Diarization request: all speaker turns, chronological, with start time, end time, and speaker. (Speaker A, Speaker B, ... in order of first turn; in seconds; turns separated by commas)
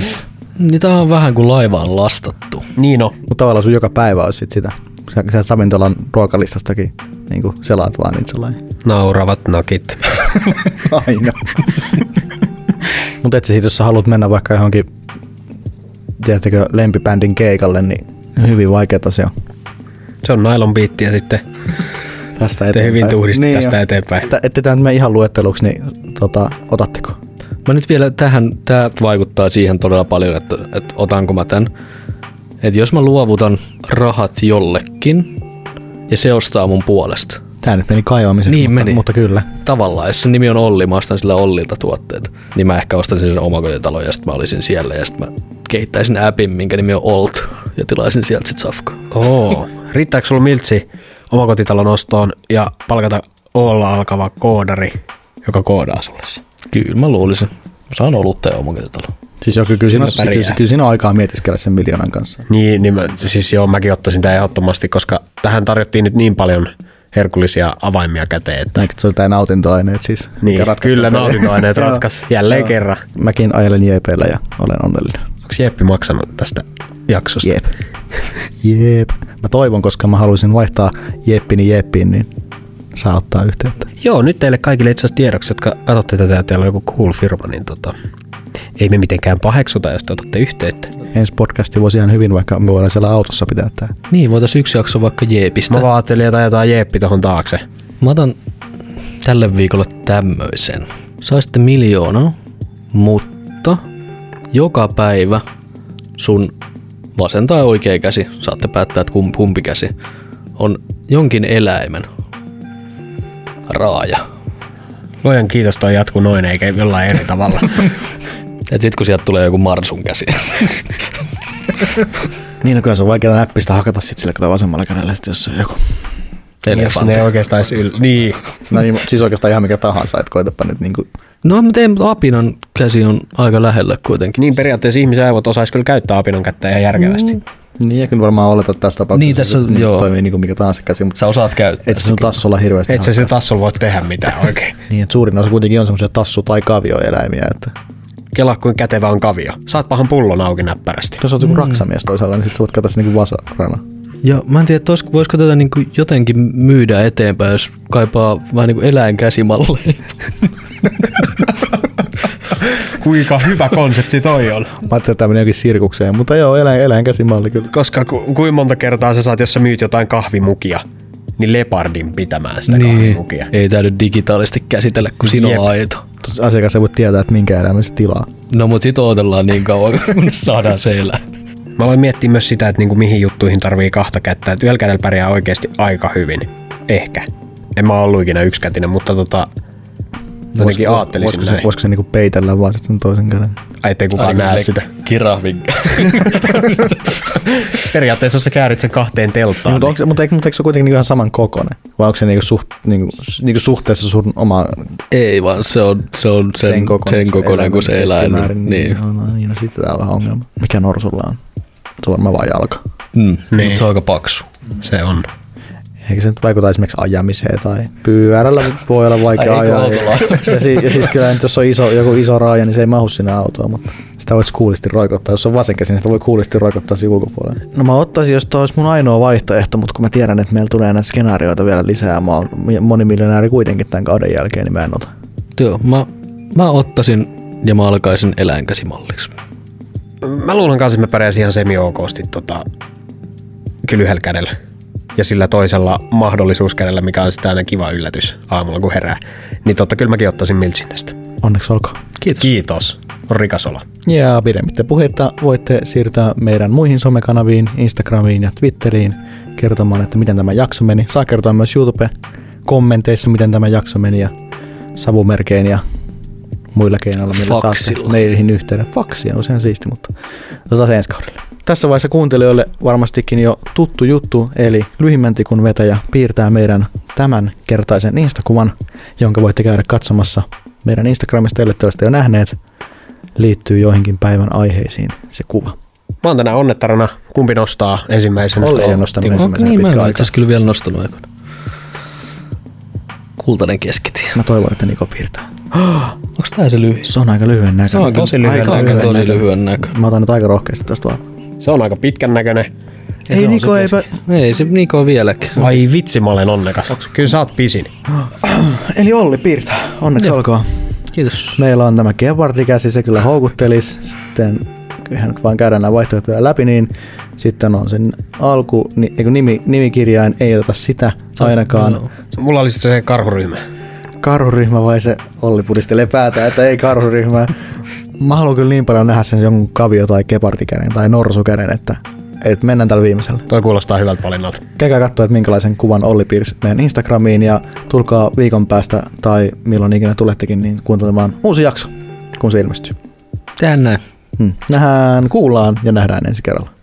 Speaker A: 0.6-2.7, Speaker B: 2.8-3.2, Speaker C: 3.3-8.6, Speaker B: 8.8-10.2, Speaker C: 10.5-11.6, Speaker C: 13.2-14.9, Speaker C: 16.2-19.3, Speaker B: 20.2-21.4, Speaker C: 22.4-27.2, Speaker B: 22.7-24.3, Speaker A: 27.7-31.7, Speaker A: 32.6-35.4, Speaker A: 36.1-37.4, Speaker C: 37.6-39.5, Speaker A: 38.5-39.1, Speaker A: 39.6-49.0, Speaker B: 49.1-56.4, Speaker A: 56.7-59.1, Speaker C: 59.4-62.5, Speaker B: 59.8-60.6, Speaker B: 62.5-68.8, Speaker C: 68.8-75.2, Speaker B: 70.4-73.0, Speaker B: 75.5-77.5, Speaker C: 77.4-77.7, Speaker C: 78.6-82.3, Speaker C: 82.9-83.9, Speaker B: 84.0-88.0, Speaker B: 88.8-90.9, Speaker C: 91.1-93.9, Speaker A: 94.1-95.9, Speaker B: 95.7-97.6, Speaker A: 98.0-98.4, Speaker A: 99.2-102.4, Speaker A: 102.9-103.8, Speaker A: 104.5-105.4, Speaker A: 106.2-106.5, Speaker A: 107.2-109.9, Speaker A: 110.6-112.1, Speaker A: 113.7-114.2, Speaker B: 115.2-117.9, Speaker A: 118.7-120.9, Speaker C: 122.6-125.8, Speaker A: 126.6-127.3, Speaker B: 126.7-128.4, Speaker C: 128.7-131.1, Speaker A: 131.4-134.6, Speaker B: 134.4-137.4, Speaker C: 137.8-141.2, Speaker A: 139.2-140.1, Speaker A: 141.2-142.4, Speaker C: 141.8-143.3, Speaker B: 142.9-144.8, Speaker C: 144.9-147.7, Speaker B: 148.3-151.2, Speaker C: 151.2-153.8, Speaker A: 154.2-160.5, Speaker B: 162.6-164.8, Speaker C: 164.8-167.7, Speaker B: 167.7-170.8, Speaker B: 171.4-173.5, Speaker A: 172.7-176.0, Speaker B: 175.2-175.7, Speaker C: 176.2-178.3, Speaker A: 178.5-181.2, Speaker B: 181.8-189.5, Speaker C: 190.5-193.6, Speaker B: 190.6-191.7, Speaker B: 193.8-194.9, Speaker A: 194.2-197.2, Speaker B: 197.3-200.0, Speaker C: 199.7-204.9, Speaker A: 205.1-209.0, Speaker C: 206.6-211.4, Speaker C: 212.0-212.8, Speaker A: 213.2-214.5, Speaker B: 213.5-213.8, Speaker B: 214.8-215.3, Speaker C: 216.1-235.1, Speaker A: 219.3-221.1, Speaker A: 235.6-239.3, Speaker B: 240.2-242.7, Speaker B: 243.8-244.5, Speaker B: 245.2-251.2, Speaker C: 251.4-252.0, Speaker B: 252.3-253.8, Speaker C: 254.1-262.1, Speaker C: 262.6-264.3, Speaker C: 265.0-265.8, Speaker C: 266.7-270.1, Speaker A: 267.3-268.2, Speaker C: 270.7-282.6, Speaker C: 283.4-285.8, Speaker B: 286.2-289.5, Speaker C: 288.6-290.3, Speaker A: 289.4-291.3, Speaker A: 293.4-294.4, Speaker C: 294.4-295.6, Speaker A: 296.4-297.1, Speaker C: 297.1-301.2, Speaker A: 297.9-299.9, Speaker B: 298.0-299.2, Speaker B: 301.6-302.7, Speaker C: 303.3-304.1, Speaker A: 303.3-305.7, Speaker B: 305.6-307.9, Speaker C: 308.1-310.7, Speaker A: 311.1-311.6, Speaker C: 311.6-322.1, Speaker A: 321.4-322.1, Speaker B: 322.4-323.6, Speaker C: 324.2-327.6, Speaker C: 328.2-333.5, Speaker B: 333.5-334.6, Speaker C: 334.8-342.9, Speaker A: 343.6-344.0, Speaker C: 344.4-346.7